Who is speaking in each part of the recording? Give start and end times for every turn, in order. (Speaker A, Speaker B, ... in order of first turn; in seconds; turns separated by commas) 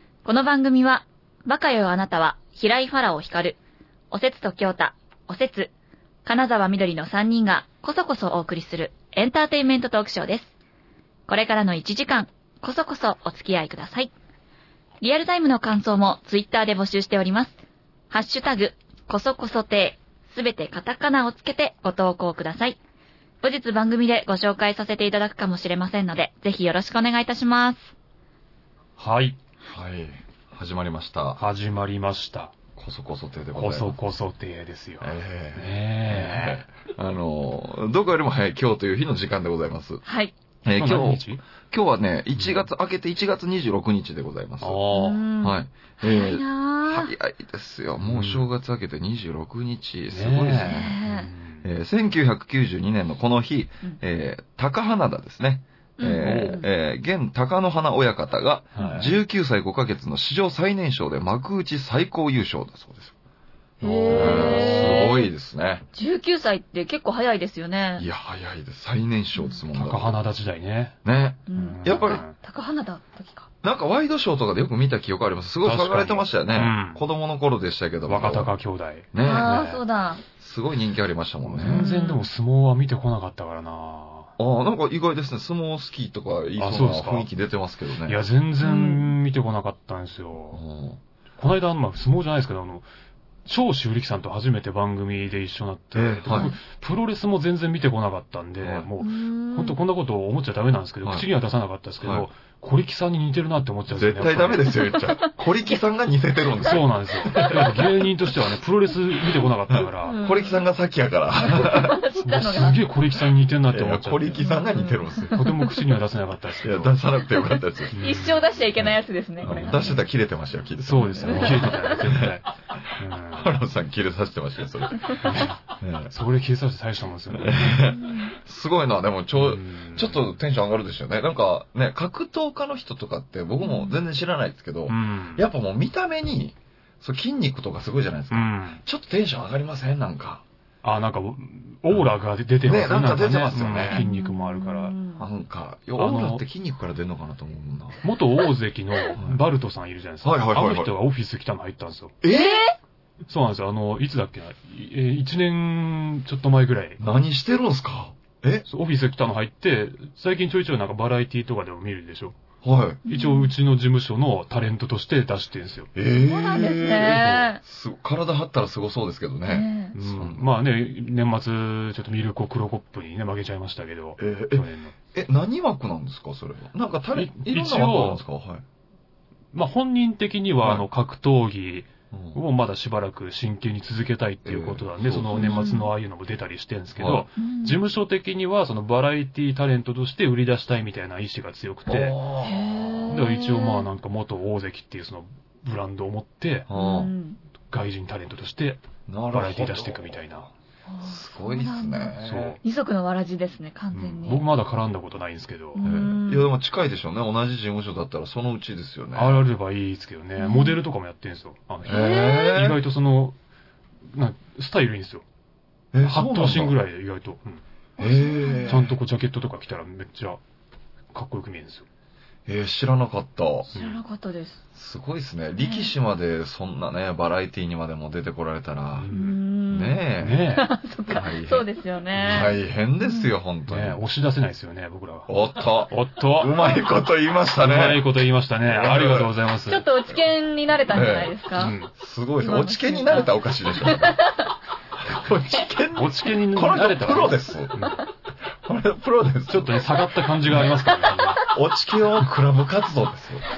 Speaker A: 0.2-3.6, Speaker A: 4.1-5.7, Speaker A: 6.2-10.5, Speaker A: 11.3-14.1, Speaker A: 15.0-17.6, Speaker A: 18.1-22.8, Speaker A: 23.4-27.9, Speaker B: 29.0-29.4, Speaker C: 29.6-31.4, Speaker B: 31.4-32.5, Speaker C: 32.8-34.0, Speaker B: 33.5-36.6, Speaker C: 35.0-40.0, Speaker A: 40.0-40.3, Speaker C: 40.6-44.8, Speaker B: 40.7-41.4, Speaker B: 42.4-42.6, Speaker B: 44.6-45.2, Speaker A: 44.9-47.1, Speaker C: 45.4-51.0, Speaker B: 48.0-48.5, Speaker B: 50.1-51.6, Speaker A: 50.6-51.3, Speaker C: 51.6-63.1, Speaker A: 56.0-56.6, Speaker B: 56.2-56.6, Speaker B: 58.7-59.2, Speaker B: 63.8-65.2, Speaker A: 63.8-65.3, Speaker C: 64.1-65.9, Speaker A: 65.9-68.1, Speaker C: 68.0-70.2, Speaker B: 69.7-71.0, Speaker C: 71.0-72.2, Speaker A: 71.5-73.5, Speaker B: 71.5-72.4, Speaker C: 73.6-78.5, Speaker B: 75.6-77.0, Speaker B: 78.1-79.8, Speaker C: 79.1-79.6, Speaker A: 79.2-80.2, Speaker C: 80.4-81.9, Speaker B: 81.5-84.3, Speaker A: 81.6-82.3, Speaker C: 84.4-88.2, Speaker B: 86.6-87.3, Speaker B: 88.0-90.6, Speaker A: 88.6-89.1, Speaker C: 90.5-91.0, Speaker B: 91.4-92.9, Speaker B: 93.5-104.8, Speaker C: 95.9-96.5, Speaker A: 96.3-96.6, Speaker C: 98.6-98.9, Speaker A: 99.0-99.8, Speaker C: 102.0-102.3, Speaker C: 104.0-108.1, Speaker A: 104.9-105.3, Speaker B: 106.6-110.2, Speaker C: 109.7-112.0, Speaker A: 110.0-110.6, Speaker A: 111.4-112.8, Speaker B: 112.2-114.4, Speaker C: 113.7-115.5, Speaker A: 114.4-115.8, Speaker B: 115.3-117.0, Speaker C: 116.6-118.0, Speaker B: 117.9-118.5, Speaker A: 118.0-119.9, Speaker C: 118.8-126.1, Speaker B: 119.5-120.0, Speaker B: 120.8-123.6, Speaker A: 121.2-121.9, Speaker B: 125.2-125.6, Speaker B: 126.1-127.9, Speaker C: 127.3-140.4, Speaker A: 127.9-128.3, Speaker B: 129.3-130.2, Speaker A: 133.6-134.0, Speaker B: 134.9-135.5, Speaker B: 138.3-138.8, Speaker B: 140.8-144.9, Speaker C: 142.6-144.0, Speaker A: 143.9-145.3, Speaker C: 145.2-148.1, Speaker B: 146.0-146.4, Speaker B: 148.0-152.2, Speaker C: 150.2-150.9, Speaker C: 152.2-152.7, Speaker A: 152.3-152.8, Speaker B: 153.3-157.0, Speaker C: 157.0-158.7, Speaker B: 158.7-162.4, Speaker C: 162.6-163.0, Speaker A: 163.1-163.5, Speaker B: 163.1-165.9, Speaker C: 165.9-170.5, Speaker A: 166.1-167.6, Speaker B: 166.9-167.5, Speaker A: 169.5-169.9, Speaker B: 169.9-174.9, Speaker C: 174.2-178.6, Speaker B: 177.1-178.2, Speaker B: 179.5-192.2, Speaker C: 182.1-182.4, Speaker C: 184.4-185.7, Speaker A: 185.3-185.9, Speaker C: 187.0-187.3, Speaker A: 187.4-187.8, Speaker C: 191.9-193.3, Speaker A: 192.4-193.9, Speaker B: 193.1-196.7, Speaker C: 196.7-197.1, Speaker A: 196.7-197.4, Speaker B: 197.7-200.5, Speaker C: 199.1-200.3, Speaker A: 200.9-204.5, Speaker C: 201.0-202.6, Speaker B: 202.2-202.6, Speaker B: 203.9-205.8, Speaker A: 205.8-206.5, Speaker C: 205.8-209.5, Speaker B: 209.1-213.4, Speaker A: 210.4-210.8, Speaker C: 211.8-212.8, Speaker A: 211.9-212.6, Speaker B: 214.1-215.2, Speaker C: 215.9-216.8, Speaker B: 216.0-217.6, Speaker A: 218.0-218.7, Speaker C: 218.0-219.0, Speaker B: 218.7-220.4, Speaker B: 221.1-221.9, Speaker C: 222.5-223.7, Speaker B: 223.7-224.0, Speaker A: 223.7-224.6, Speaker C: 224.8-229.1, Speaker A: 225.6-225.9, Speaker B: 229.0-229.4, Speaker A: 229.1-230.0, Speaker C: 229.7-230.5, Speaker B: 230.2-230.7, Speaker A: 230.6-233.3, Speaker C: 231.1-231.7, Speaker B: 232.2-232.5, Speaker C: 232.2-234.0, Speaker B: 233.7-235.3, Speaker C: 235.3-238.1, Speaker B: 235.9-236.6, Speaker B: 237.6-239.8, Speaker C: 238.6-239.3, Speaker A: 239.7-241.8, Speaker C: 240.9-241.4, Speaker B: 241.6-241.9, Speaker C: 241.9-244.2, Speaker A: 242.4-244.5, Speaker C: 245.0-247.8, Speaker B: 245.9-248.1, Speaker C: 248.5-250.7, Speaker B: 249.5-251.4, Speaker A: 250.9-251.6, Speaker C: 251.4-253.4